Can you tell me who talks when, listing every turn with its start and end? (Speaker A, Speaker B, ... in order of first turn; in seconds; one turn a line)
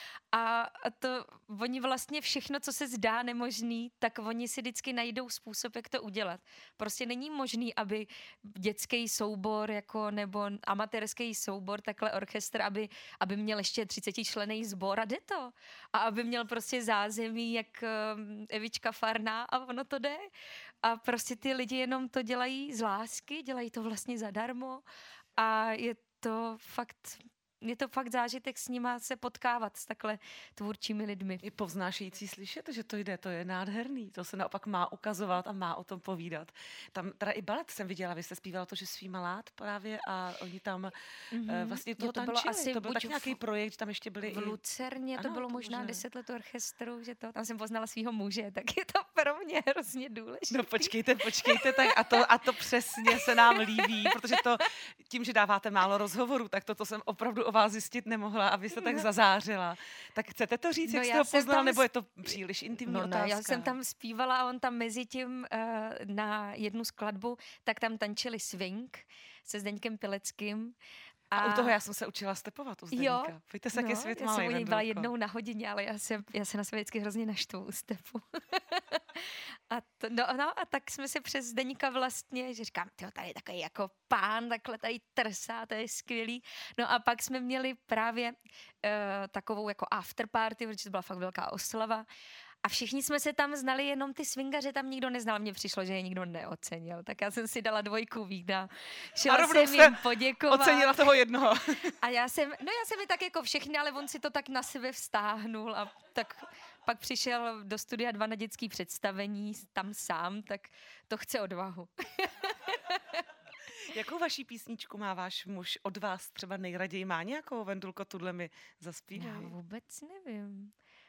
Speaker A: 0.3-20.3
Speaker A: 20.8-24.8
Speaker A: 25.4-31.4
Speaker B: 31.4-41.0
Speaker A: 41.3-43.4
Speaker B: 41.5-44.6
Speaker A: 44.2-52.4
Speaker B: 45.1-46.0
Speaker B: 50.5-63.7
Speaker A: 53.0-54.1
Speaker A: 60.9-61.8
Speaker A: 62.9-70.8
Speaker A: 71.3-71.7
Speaker B: 71.3-75.1
Speaker A: 72.9-92.0
Speaker A: 92.6-101.2
Speaker B: 99.2-102.0
Speaker A: 102.0-113.2
Speaker B: 113.7-119.5
Speaker A: 119.1-120.7